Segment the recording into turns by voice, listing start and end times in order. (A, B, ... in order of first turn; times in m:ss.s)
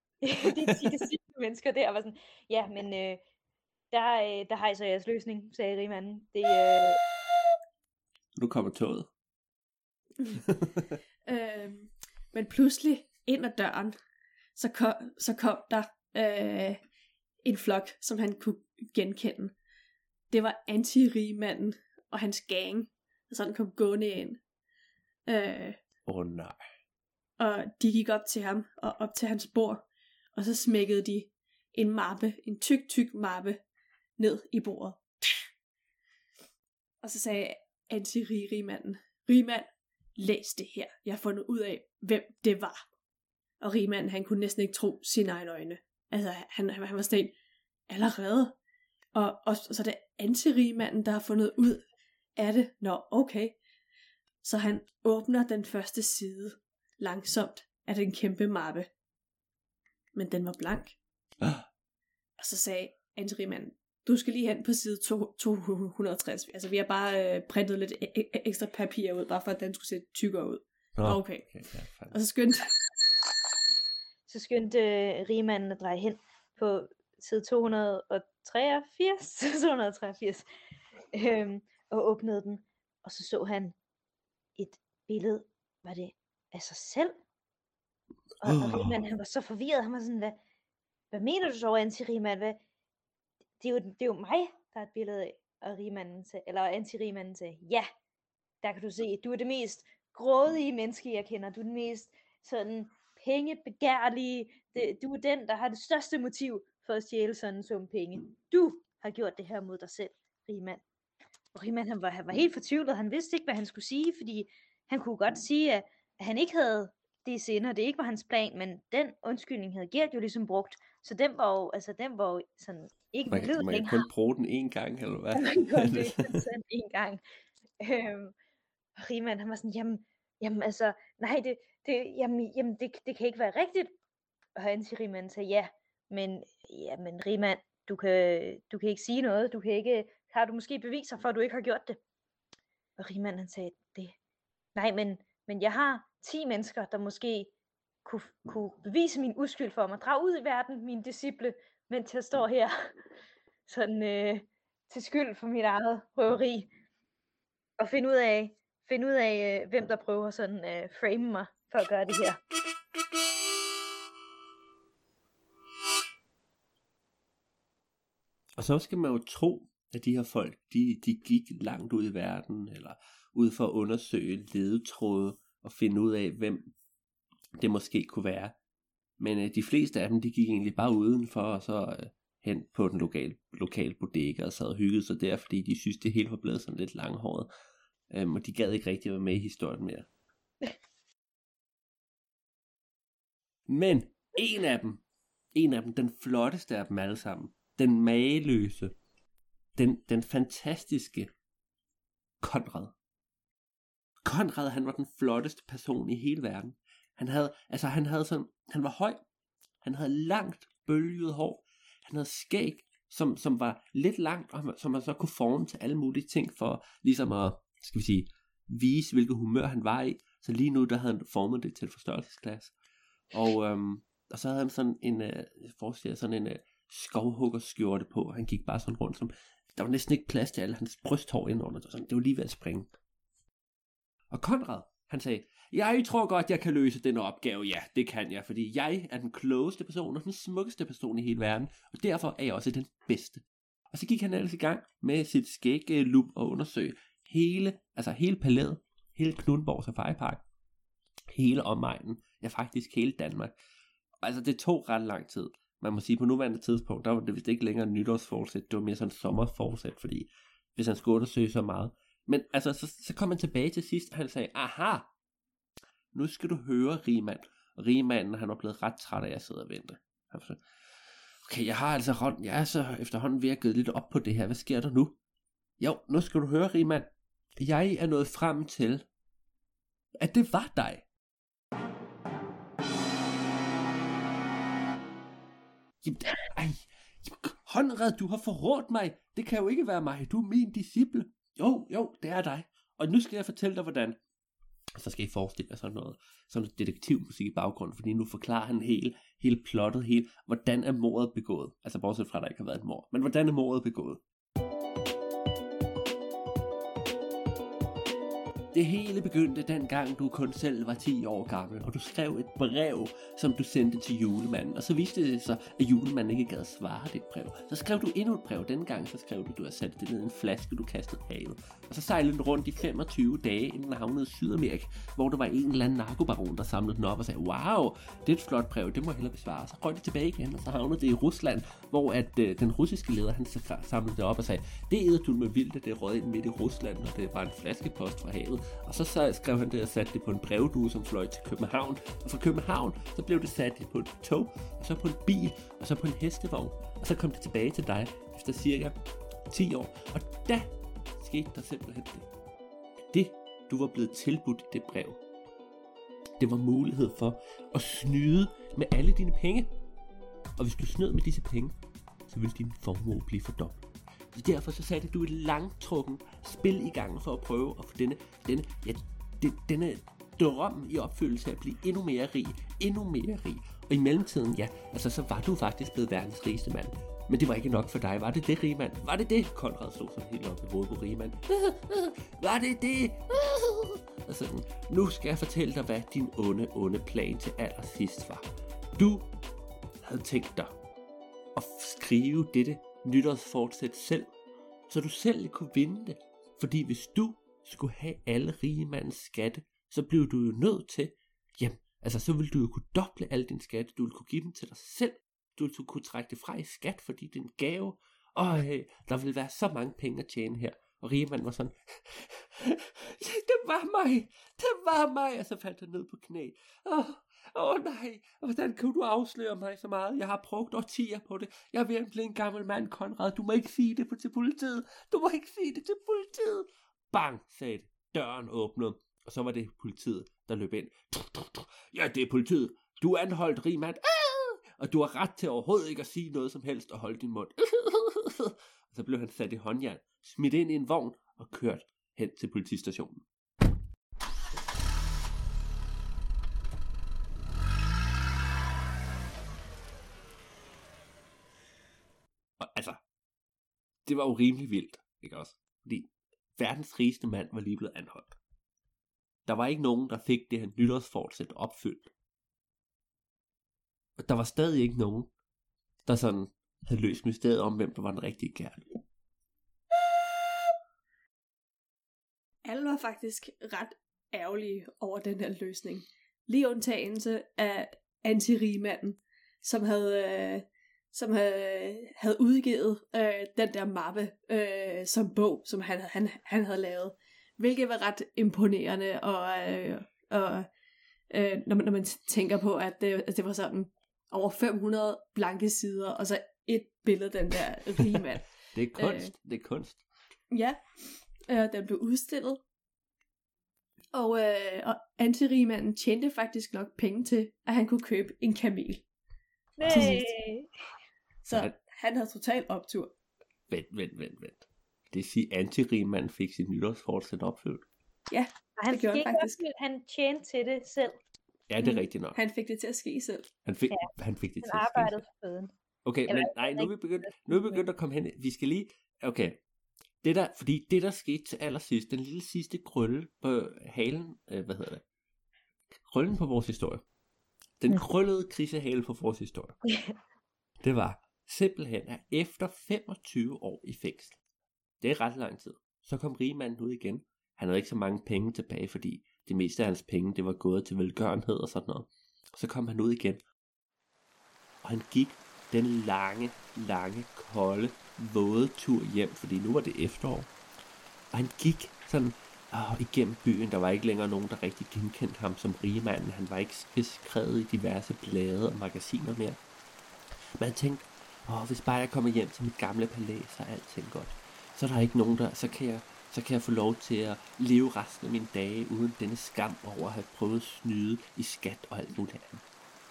0:00.2-0:03.2 A
0:00.4-0:00.9 B
0:03.9-0:07.0 A
0:08.4-0:09.1 B
0:10.4-0:10.9 B
0:11.2-0:14.0 C
0:14.6-0:16.8 C
0:17.4-0:19.5 C
0:20.3-0:24.4 C
0:25.3-0:25.8 C
0:26.0-0:26.6 B
0:27.4-0:33.6 C
0:34.2-0:35.5 C
0:37.0-0:42.8 C
0:43.6-0:47.3 C
0:47.9-0:48.6 C
0:49.1-0:51.8 C
0:52.4-0:53.6 C
0:54.4-0:58.9 C
1:00.1-1:01.0 C
1:01.4-1:01.7 B
1:02.4-1:11.5 C
1:11.0-1:12.2 B
1:12.1-1:12.7 C
1:14.3-1:20.4 A
1:21.1-1:23.8 A
1:24.6-1:27.1 A
1:28.4-1:30.4 A
1:28.4-1:29.0 B
1:31.1-1:32.6 A
1:33.6-1:37.9 A
1:38.6-1:50.8 A
1:51.5-2:04.1 A
2:03.3-2:06.4 B
2:05.3-2:07.2 A
2:07.8-2:08.3 A
2:09.0-2:13.9 A
2:14.6-2:22.0 A
2:23.0-2:24.2 A
2:24.7-2:27.5 A
2:28.0-2:32.9 A
2:33.7-2:36.7 A
2:37.8-2:42.4 A
2:48.6-2:56.7 B
2:57.6-2:58.6 B
2:59.2-3:07.5 B
3:08.1-3:10.1 B
3:13.7-3:15.0 B
3:15.5-3:18.9 B
3:19.8-3:21.3 B
3:22.4-3:22.9 B
3:24.2-3:29.2 B
3:29.8-3:42.7 B
3:43.3-3:52.9 B
3:54.3-4:10.4 B
4:11.3-4:13.5 B
4:14.2-4:25.1 B
4:26.1-4:30.6 B
4:31.4-4:35.2 B
4:35.8-4:37.1 B
4:37.6-4:39.0 B
4:40.2-4:41.0 B
4:46.0-4:54.2 B
4:55.0-5:04.2 B
5:08.7-5:48.9 B
5:49.5-5:52.3 B
5:53.1-5:55.2 B
5:56.4-5:59.7 B
6:00.6-6:01.7 B
6:02.3-6:29.3 B
6:30.0-6:30.8 B
6:31.5-6:34.3 B
6:34.9-7:23.2 B
7:32.6-7:33.0 B
7:34.0-7:38.4 B
7:39.4-7:42.1 B
7:44.2-7:45.3 B
7:46.0-7:49.0 B
7:52.6-8:10.7 C
8:11.3-8:19.3 C
8:18.7-8:20.0 B
8:20.5-8:22.6 C
8:24.1-8:29.0 C
8:29.8-8:30.7 A
8:29.8-8:30.2 C
8:29.9-8:30.2 B
8:31.4-8:33.1 C
8:33.7-8:37.9 B
8:38.3-8:39.6 C
8:38.8-8:41.2 A
8:41.7-8:42.4 B
8:42.3-8:43.5 C
8:43.6-8:45.2 B
8:44.6-8:45.7 A
8:46.0-8:49.6 B
8:46.3-8:47.8 A
8:50.2-8:55.0 B
8:56.1-8:57.0 B
8:57.8-8:59.8 B
9:00.8-9:04.4 B
9:05.0-9:13.4 B
9:14.8-9:20.5 B
9:21.3-9:29.6 B
9:30.6-9:42.6 B